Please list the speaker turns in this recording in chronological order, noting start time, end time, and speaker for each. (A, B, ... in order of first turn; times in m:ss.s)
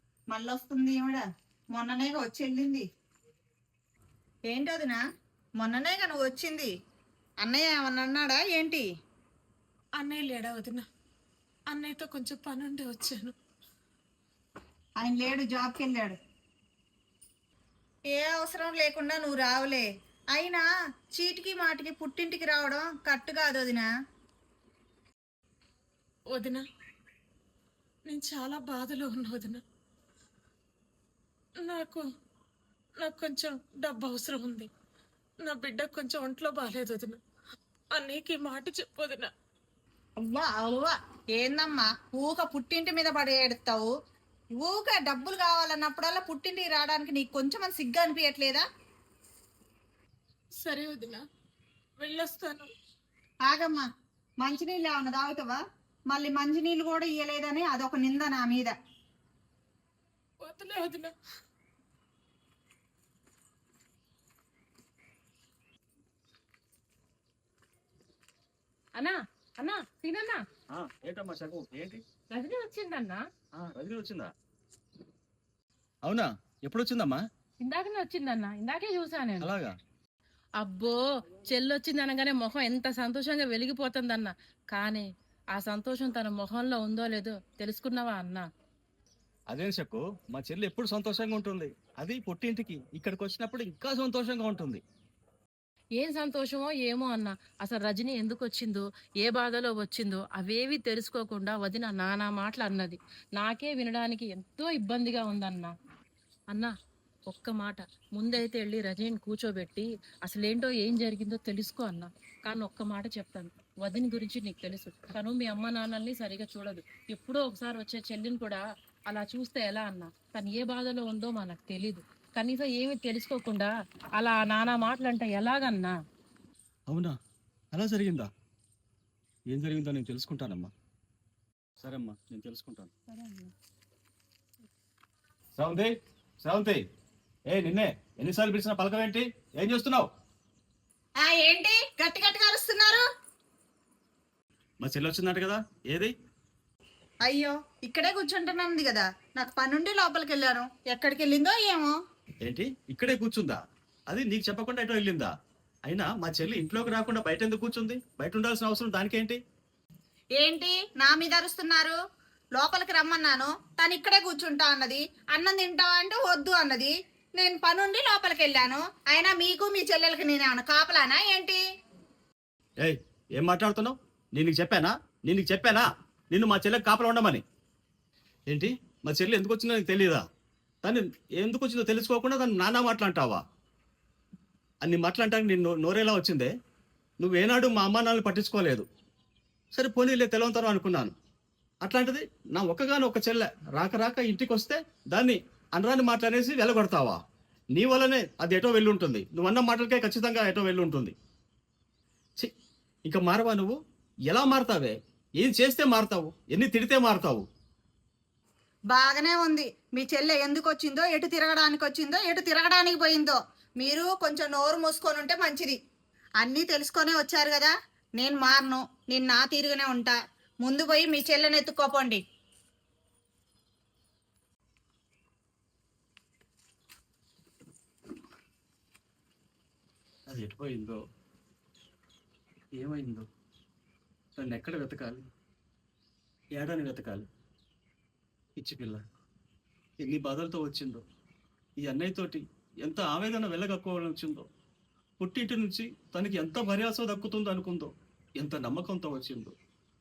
0:00.3-0:01.2 A
0:01.7-0:02.8 A
0:04.5-0:05.0 A
0:05.6-0:06.7 A
0:07.4-0:08.8 A
0:10.0-0:10.8 B
0:11.7-0:13.3 B
0:15.0-0:16.2 A
0:18.1-0:23.9 A
0:26.3-0:26.6 B
0:28.1-0:29.6 B
0:31.6-0:32.0 B
0:33.0-0:34.7 B
0:35.4-0:37.2 B
0:37.9-0:39.3 B
0:40.2-0:43.9 A
0:44.6-0:48.6 A
0:50.6-0:51.2 B
0:52.0-0:52.7 B
0:53.5-0:53.9 A
0:54.4-0:55.6 A
0:56.1-0:58.7 A
1:00.4-1:01.1 B
1:09.0-1:10.4 C
1:10.7-1:12.0 D
1:12.3-1:13.2 C
1:13.6-1:14.3 D
1:16.0-1:17.2 D
1:17.6-1:19.5 C
1:19.4-1:19.8 D
1:20.6-1:28.4 C
1:29.5-1:34.8 D
1:36.0-1:45.7 C
1:47.3-2:05.9 C
2:06.9-2:07.2 D
2:07.7-2:08.3 D
2:09.5-2:10.7 D
2:11.8-2:12.9 D
2:13.1-2:13.5 C
2:15.6-2:16.8 D
2:17.5-2:20.1 D
2:21.2-2:23.0 A
2:24.8-2:26.1 D
2:27.2-2:31.9 A
2:32.4-2:35.3 D
2:35.8-2:39.4 D
2:40.4-2:42.0 A
2:42.6-2:51.6 A
2:52.8-2:57.4 D
2:58.5-3:00.2 D
3:00.8-3:03.4 D
3:04.8-3:06.5 D
3:07.2-3:08.8 D
3:09.7-3:11.1 D
3:11.8-3:17.2 D
3:17.7-3:21.1 D
3:23.1-3:23.8 D
3:24.3-3:27.4 D
3:28.9-3:35.8 A
3:36.4-3:42.2 A
3:50.3-3:51.0 D
3:52.8-3:53.3 D
3:54.4-3:55.3 D
3:56.5-3:57.3 D
3:58.6-3:59.0 D
4:00.0-4:01.0 D
4:01.8-4:04.5 D
4:05.2-4:09.5 D